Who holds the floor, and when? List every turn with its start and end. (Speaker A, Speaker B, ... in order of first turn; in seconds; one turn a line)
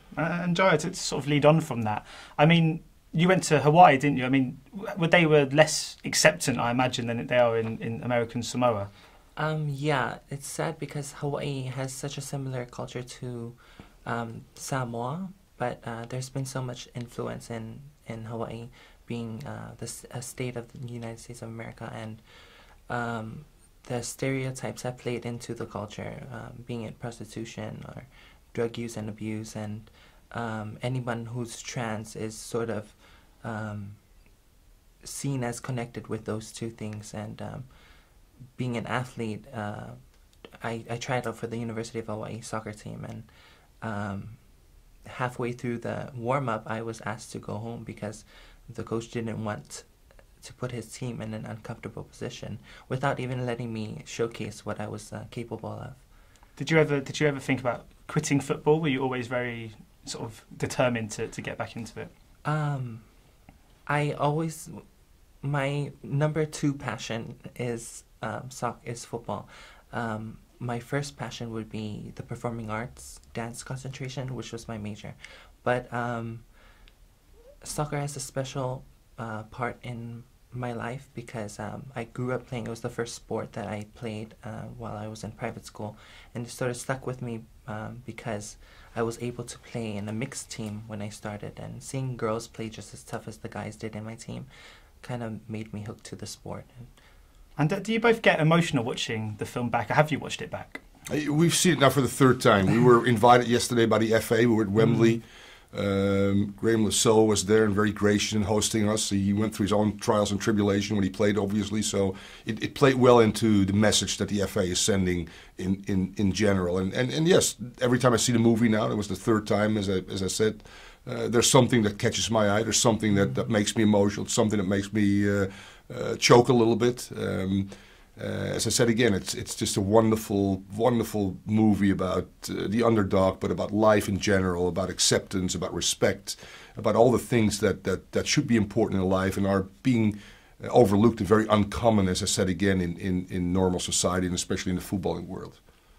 Speaker A: 0.1-8.9
Speaker B: 9.3-22.2
Speaker B: 22.9-34.0
Speaker B: 35.0-37.7
Speaker B: 38.6-40.0
Speaker B: 40.6-43.3
Speaker B: 43.8-44.4
Speaker B: 45.0-49.9
Speaker B: 50.4-56.0
Speaker A: 56.6-62.1
Speaker B: 62.4-63.1
Speaker B: 63.9-64.8
Speaker B: 65.4-76.5
Speaker B: 77.6-94.5
Speaker B: 95.0-96.9
Speaker A: 97.6-100.8
Speaker C: 101.1-145.6